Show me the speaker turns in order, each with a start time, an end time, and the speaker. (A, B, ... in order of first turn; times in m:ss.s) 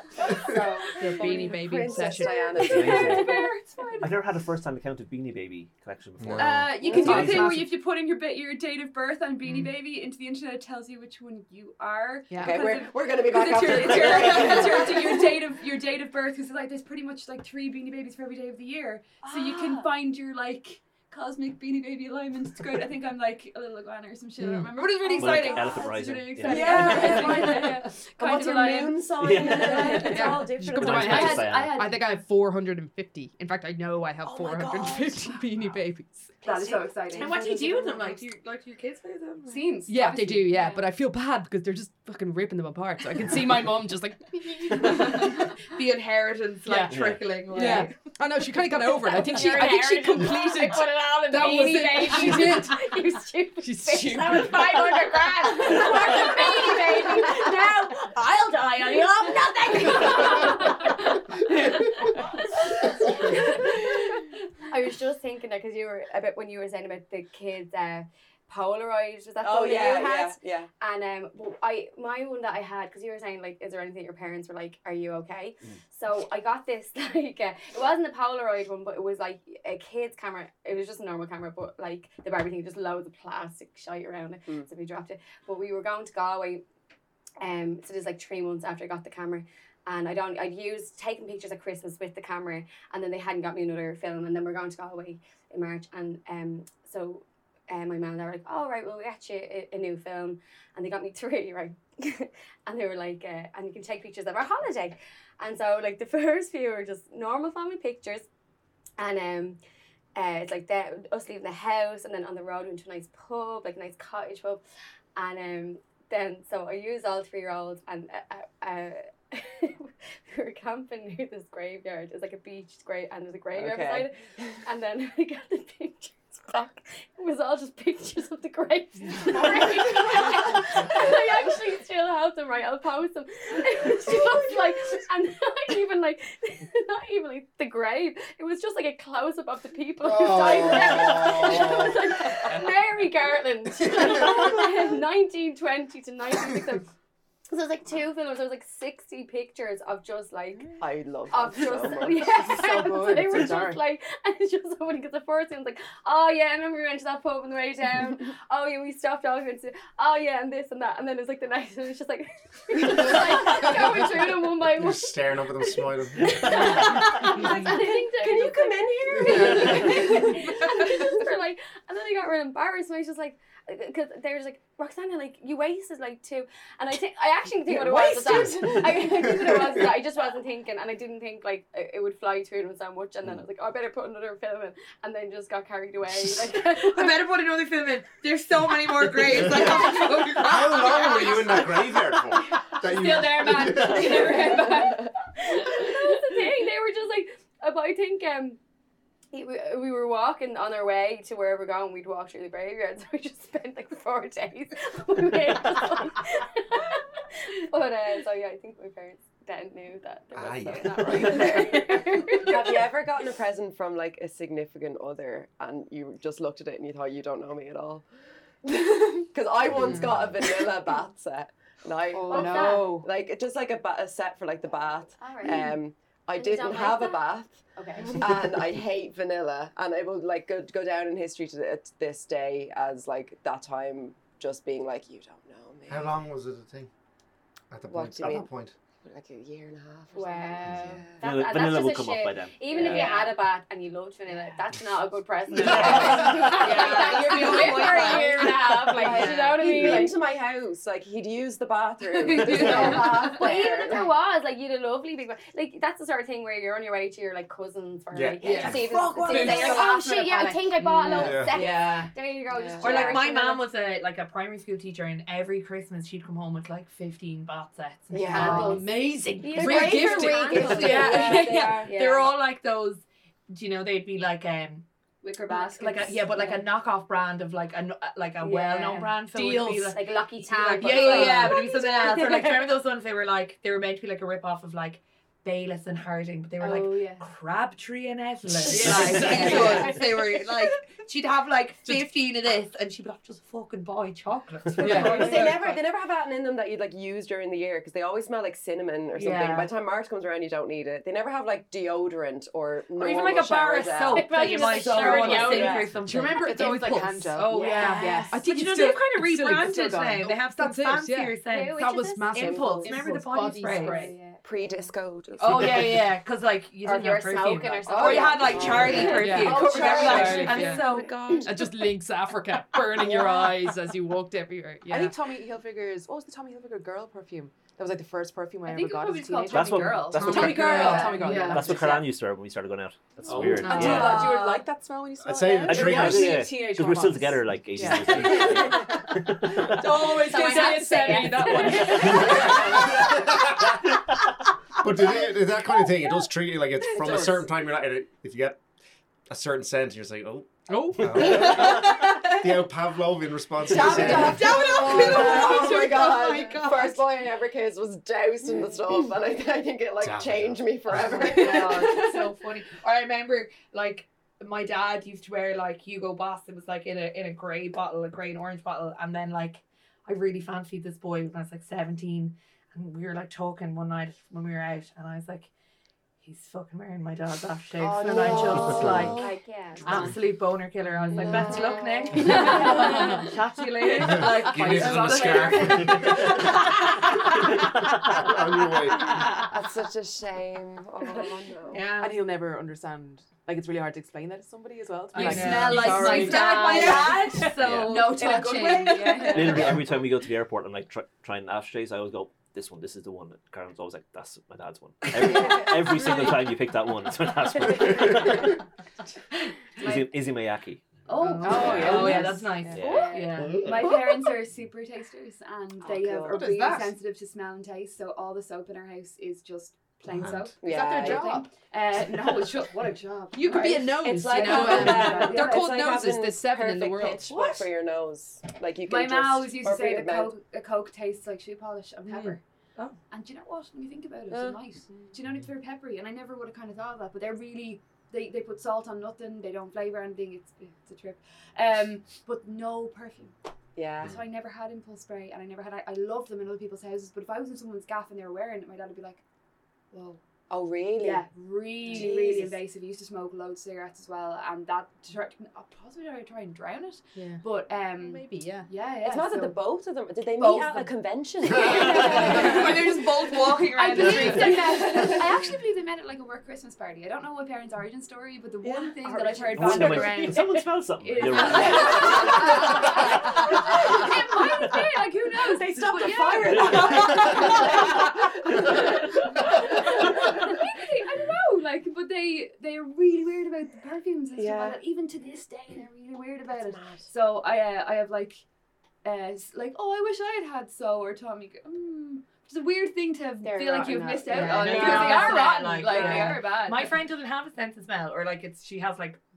0:00.3-0:00.9 A
0:00.3-0:03.3 B
0:01.0-0:02.7 C
0:02.4-0:04.2 D
0:02.6-0:07.7 E
0:02.6-0:03.5 A
0:06.2-0:06.7 F
0:06.4-0:32.2 D
0:06.8-0:07.6 B
0:07.0-0:07.4 C
0:12.3-0:12.7 C
0:12.4-0:15.4 B
0:24.4-0:27.6 C
0:25.1-0:27.7 E
0:26.4-0:31.6 B
0:29.2-0:31.8 E
0:29.8-0:36.4 C
0:34.2-0:35.4 B
0:36.4-0:37.5 D
0:36.4-0:38.2 B
0:37.1-0:39.9 G
0:39.4-0:40.8 D
0:39.9-0:45.7 C
0:45.7-0:48.1 G
0:46.7-0:53.0 C
0:46.9-0:47.3 E
0:48.9-1:03.9 A
0:52.2-0:52.5 G
0:53.6-0:56.5 C
0:55.6-0:57.3 D
0:57.5-1:00.6 C
0:59.9-1:01.1 D
1:04.6-1:26.6 A
1:09.4-1:10.7 B
1:27.4-1:48.3 A
1:49.0-1:49.6 A
1:50.2-1:54.6 A
1:55.2-2:26.9 A
2:03.5-2:04.6 B
2:20.0-2:22.1 F
2:27.5-3:07.2 A
2:30.8-2:32.6 B
2:32.4-2:33.8 H
2:43.5-2:44.1 F
2:44.6-2:46.4 F
2:46.4-2:51.1 B
2:49.2-2:50.0 F
2:57.7-3:00.0 B
3:06.7-3:11.9 G
3:09.3-3:14.6 F
3:12.8-3:16.0 D
3:13.7-3:15.1 B
3:14.6-3:18.6 A
3:19.3-3:32.9 A
3:30.4-3:31.8 F
3:31.3-3:38.1 B
3:38.6-3:56.2 B
3:39.7-3:40.3 F
3:42.1-3:43.1 H
3:42.3-3:42.9 A
3:45.2-3:45.8 A
3:46.4-3:47.2 A
3:47.8-3:48.2 H
3:55.9-3:56.9 F
3:57.7-3:58.7 F
3:57.9-3:58.5 B
3:59.0-4:01.2 B
4:00.1-4:10.2 A
4:01.2-4:03.0 E
4:02.7-4:03.3 B
4:02.8-4:03.2 G
4:04.3-4:04.6 B
4:05.6-4:14.1 B
4:05.6-4:06.3 E
4:05.7-4:08.7 G
4:09.1-4:09.9 H
4:12.1-4:13.8 D
4:12.5-4:23.6 A
4:12.6-4:12.9 G
4:18.1-4:18.9 F
4:18.4-4:20.6 C
4:18.5-4:20.0 B
4:20.2-4:20.6 D
4:21.0-4:21.3 H
4:21.1-4:23.3 B
4:21.2-4:21.6 F
4:22.8-4:28.9 G
4:28.1-4:28.8 B
4:28.2-4:31.2 C
4:28.4-4:32.3 A
4:29.6-4:30.2 B
4:29.6-4:34.9 G
4:31.1-4:31.6 B
4:35.2-4:36.6 D
4:35.5-4:55.8 G
4:38.4-4:39.2 A
4:39.8-4:42.7 A
4:41.0-4:41.3 D
4:46.6-4:47.3 D
4:48.6-4:50.2 C
4:54.8-4:55.6 C
4:54.8-5:06.0 B
4:59.1-4:59.7 G
5:02.9-5:06.8 G
5:04.1-5:05.9 A
5:05.0-5:05.7 H
5:06.0-5:07.5 C
5:06.3-5:08.4 H
5:07.3-5:14.1 G
5:07.5-5:08.3 A
5:08.3-5:14.2 C
5:11.5-5:14.9 A
5:14.4-5:16.1 B
5:15.4-5:21.3 G
5:16.8-5:19.2 A
5:17.9-5:21.8 B
5:19.0-5:20.8 C
5:19.2-5:20.8 H
5:21.4-5:25.2 C
5:23.0-5:23.5 B
5:24.9-5:32.1 H
5:28.6-5:31.8 D
5:29.5-5:34.2 E
5:30.1-5:31.8 C
5:30.8-5:31.1 G
5:33.3-5:34.0 F
5:33.4-5:38.9 H
5:33.6-5:34.6 G
5:33.6-5:34.6 C
5:35.2-5:36.5 F
5:35.7-5:40.2 E
5:37.8-5:39.0 C
5:39.6-5:43.1 C
5:40.2-5:42.8 A
5:40.7-5:41.7 D
5:41.8-5:42.6 E
5:42.0-5:43.8 F
5:44.8-5:48.6 F
5:46.9-5:47.4 H
5:49.3-5:54.7 F
5:50.7-5:52.1 C
5:53.6-6:02.3 B
5:53.7-5:57.0 G
6:00.0-6:01.2 F
6:01.0-6:15.5 G
6:16.2-6:27.4 G
6:18.0-6:20.1 A
6:18.0-6:19.3 B
6:18.7-6:19.1 F
6:21.2-6:23.2 A
6:21.2-6:21.6 B
6:22.3-6:23.3 D
6:24.0-6:26.4 F
6:24.2-6:26.4 D
6:28.0-6:29.3 F
6:29.0-6:29.5 G
6:29.4-6:31.8 B
6:31.7-6:32.2 G
6:32.0-6:37.0 H
6:35.1-6:39.7 G
6:35.1-6:39.8 D
6:35.2-6:35.4 C
6:37.6-6:38.2 E
6:38.2-6:39.7 B
6:38.2-6:39.7 H
6:39.3-6:48.6 E
6:45.4-6:45.8 H
6:49.8-6:52.2 E
6:49.8-6:50.0 D
6:51.1-6:52.3 D
6:51.2-6:53.0 H
6:51.2-6:52.3 C
6:51.8-6:53.7 G
6:52.7-6:53.2 E
6:52.7-6:53.4 A
6:53.4-6:53.9 F
6:53.5-7:05.9 D
6:55.8-6:56.6 B
6:56.3-6:56.9 C
7:00.1-7:00.6 F
7:00.6-7:01.3 B
7:00.6-7:01.5 C
7:03.3-7:07.3 C
7:03.6-7:10.4 B
7:07.3-7:07.7 G
7:08.8-7:12.4 D
7:12.1-7:12.4 C
7:13.1-7:23.3 D
7:14.3-7:15.1 B
7:23.8-7:24.2 B
7:24.0-7:29.2 D
7:29.9-7:30.2 D
7:30.5-7:31.3 B
7:31.0-7:39.7 D
7:31.8-7:32.6 B
7:38.1-7:38.7 C
7:39.0-7:43.0 B
7:40.4-7:42.7 D
7:41.8-7:45.0 G
7:43.0-7:43.4 C
7:43.7-8:08.4 D
7:43.8-7:45.4 B
7:48.6-7:50.2 B
7:49.4-7:53.0 E
7:49.6-7:50.0 G
7:51.4-7:52.6 B
7:53.5-7:54.3 B
7:55.4-7:58.9 B
7:56.0-7:58.8 G
8:04.4-8:04.8 B
8:06.5-8:07.1 B
8:09.0-8:17.0 D
8:13.4-8:16.3 A
8:14.3-8:16.4 B
8:14.3-8:19.2 G